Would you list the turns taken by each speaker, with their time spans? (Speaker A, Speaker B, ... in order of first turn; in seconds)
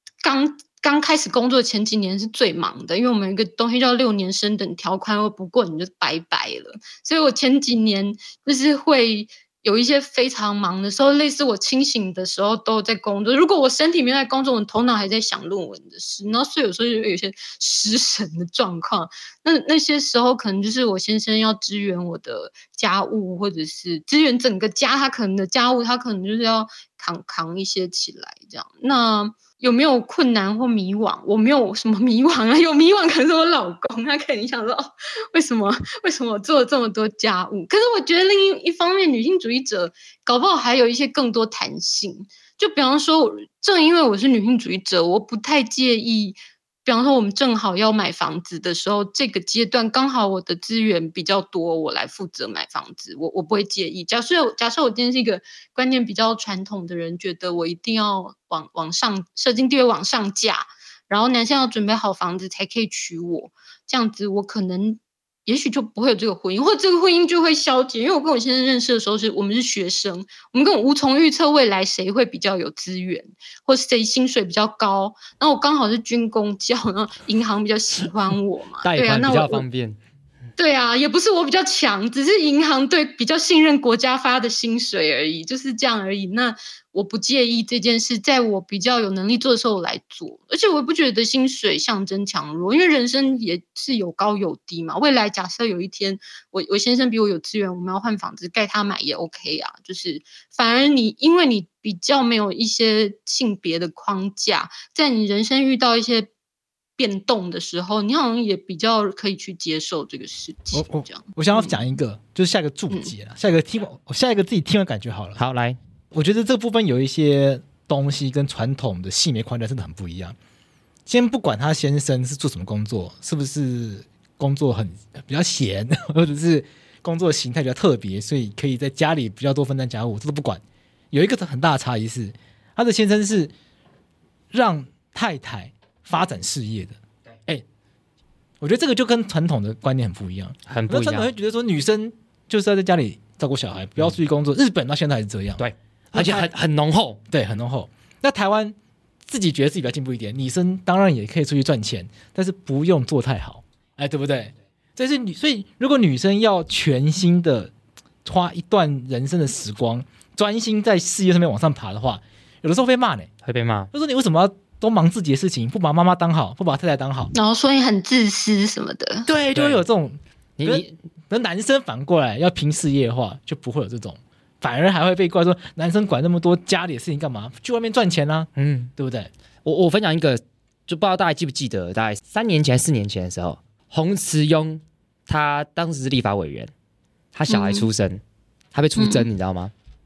Speaker A: 0.2-79.6, 80.6-106.3, 107.0-111.8, 167.3-169.3, 187.5-187.9, 189.0-189.2
Speaker B: 78.8-80.0, 115.4-115.8, 140.7-141.3, 145.6-147.2, 163.4-163.9, 169.5-169.8, 170.6-170.9, 178.6-178.9, 179.6-186.7, 187.3-188.2, 188.7-189.7
Speaker C: 110.7-115.4, 116.1-120.3, 121.1-133.5, 134.5-137.6, 138.6-145.6, 146.1-146.5, 147.3-148.7, 149.3-157.7, 158.2-163.3, 163.9-167.3, 169.2-179.3